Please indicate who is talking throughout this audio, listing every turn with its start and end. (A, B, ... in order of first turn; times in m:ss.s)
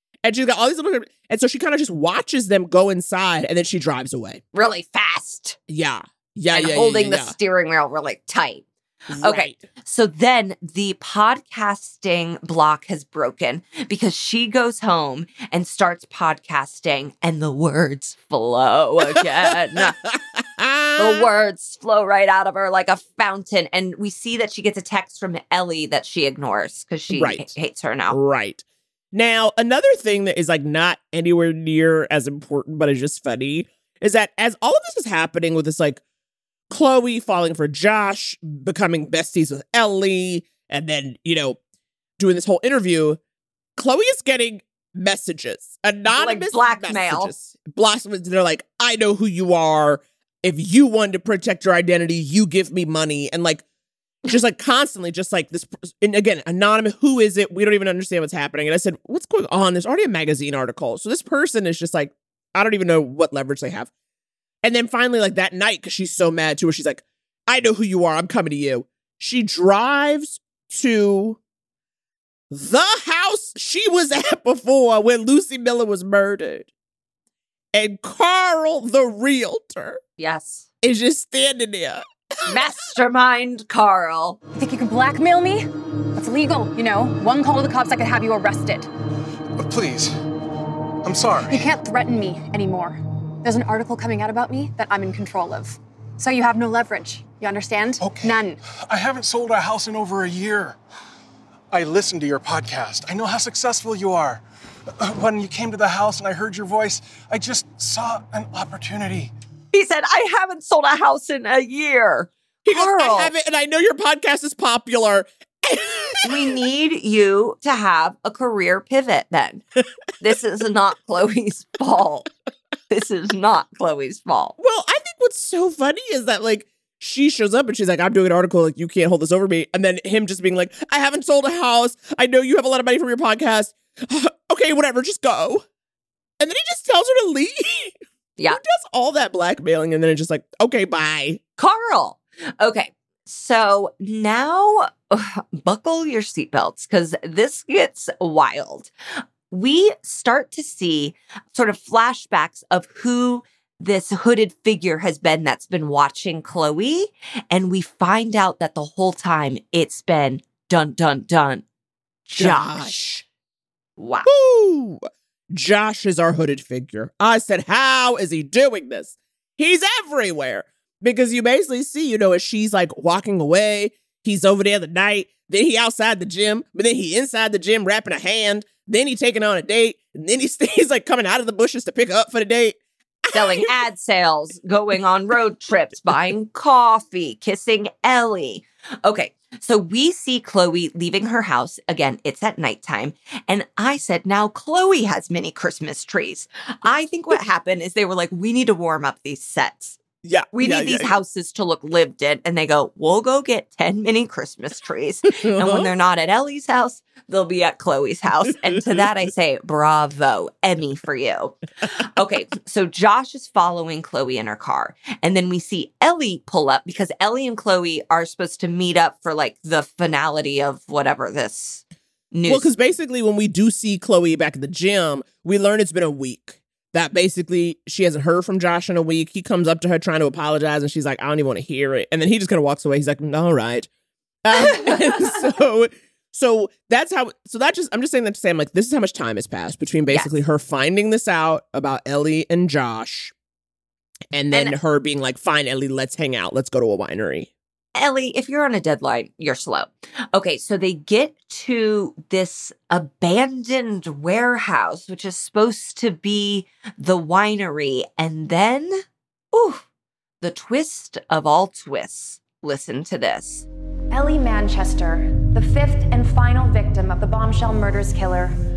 0:00.2-0:04.4 A
0:04.5-0:05.6 B
0:05.7-0:07.3 A
0:06.5-0:08.6 B
0:09.1-0:09.6 A
0:09.2-0:20.0 B
0:19.8-0:21.3 A
0:21.0-0:28.2 B
0:27.1-0:27.5 A
0:28.1-0:36.0 A
0:36.7-0:41.6 A
0:42.2-0:43.2 A
0:43.8-0:53.6 A
0:46.1-0:47.3 B
0:54.2-1:03.9 A
1:04.6-1:11.4 A
1:12.5-1:16.7 A
1:17.7-1:20.0 A
1:20.2-1:20.7 B
1:20.8-1:22.6 A
1:22.4-1:24.4 B
1:24.5-1:28.9 C
1:29.6-1:30.1 D
1:31.0-1:31.7 D
1:31.4-1:38.6 C
1:38.0-1:40.8 D
1:41.7-1:44.4 D
1:45.0-1:49.3 D
1:49.7-1:53.3 B
1:52.6-1:56.6 A
1:56.2-1:59.6 B
2:00.2-2:02.3 B
2:02.9-2:04.6 B
2:04.6-2:15.6 A
2:16.4-2:18.0 A
2:18.5-2:21.4 A
2:21.6-2:28.9 B
2:29.5-2:41.6 B
2:42.3-2:43.0 B
2:42.4-2:43.2 A
2:44.0-2:44.3 B
2:44.2-3:03.7 A
3:03.3-3:20.0 B
3:20.2-3:21.1 A
3:20.5-3:42.7 B
3:25.3-3:25.9 A
3:42.4-3:53.9 A
3:54.4-4:03.3 A
3:54.5-3:55.4 B
4:04.3-4:07.5 A
4:07.9-4:19.8 B
4:20.4-4:23.6 B
4:24.1-4:28.5 E